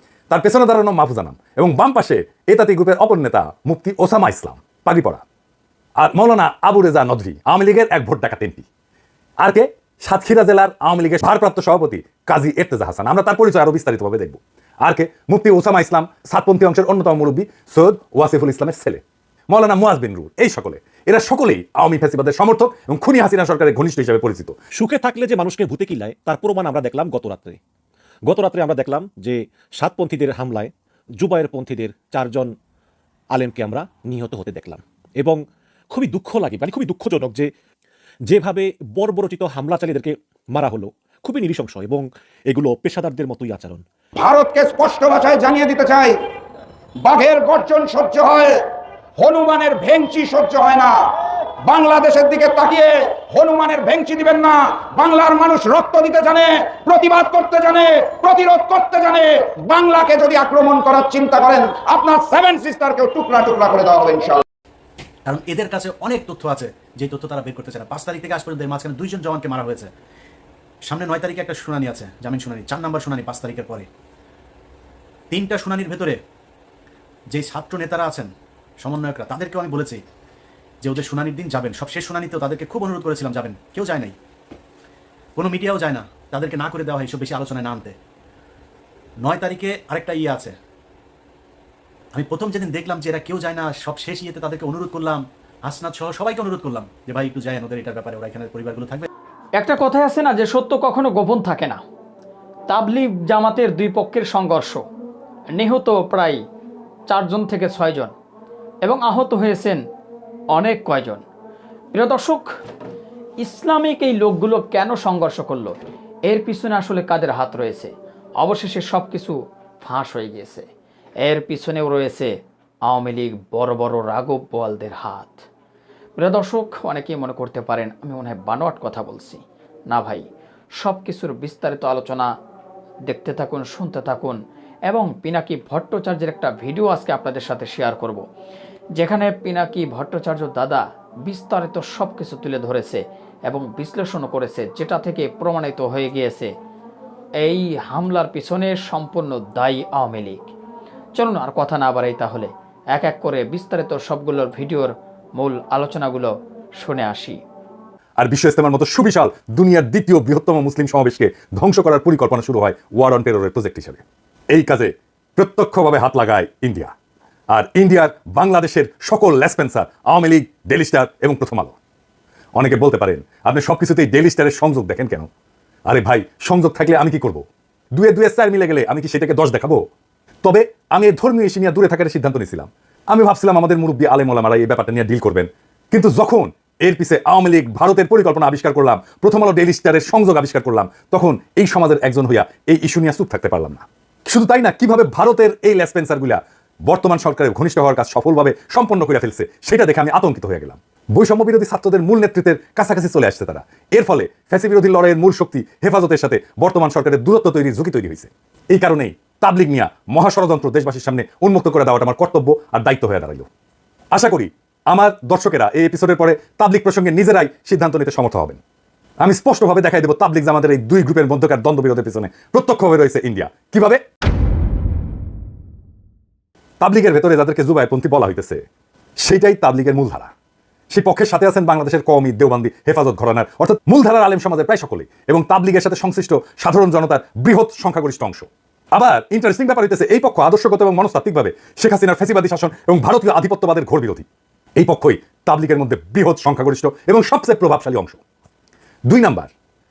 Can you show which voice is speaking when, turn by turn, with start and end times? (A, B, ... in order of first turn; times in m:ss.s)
0:00.3-0:05.2 A
0:06.0-0:08.6 A
0:09.4-0:24.6 A
0:24.8-0:27.6 B
0:24.9-0:27.0 C
0:28.3-0:30.7 B
0:28.5-0:29.0 C
0:31.2-0:32.5 B
0:31.2-0:31.8 C
0:33.3-0:34.3 C
0:33.4-0:35.3 B
0:35.9-0:37.5 B
0:36.4-0:37.2 C
0:38.3-0:43.8 B
0:39.3-0:39.8 C
0:44.2-0:46.1 D
0:47.0-0:48.5 D
0:49.2-0:50.9 D
0:51.7-1:04.4 D
1:05.2-1:09.9 C
1:10.9-1:13.9 C
1:15.3-1:16.2 C
1:17.3-1:20.0 C
1:20.8-1:24.1 C
1:25.4-1:28.0 C
1:29.2-1:30.5 C
1:32.1-1:39.1 C
1:39.6-1:41.8 E
1:42.7-1:44.8 E
1:45.6-1:46.4 E
1:47.1-1:48.1 E
1:48.8-1:49.8 E
1:50.6-1:51.2 E
1:51.9-1:52.5 E
1:53.4-1:55.8 E
1:56.3-2:00.7 E
2:01.2-2:02.3 E
2:02.9-2:05.4 E
2:06.2-2:10.2 E
2:10.8-2:12.3 E
2:13.1-2:18.2 E
2:19.0-2:26.5 E
2:27.4-2:30.5 E
2:31.2-2:37.4 E
2:38.2-2:46.9 A
2:47.5-2:51.8 A
2:52.6-2:55.3 A
2:55.9-2:57.4 A
2:58.0-2:59.8 A
3:00.4-3:33.5 A
3:34.1-3:38.6 A
3:39.2-3:44.0 A
3:46.8-3:48.6 A
3:49.2-3:50.3 A
3:50.9-4:04.2 A
4:04.8-4:08.2 A
4:09.1-4:09.5 A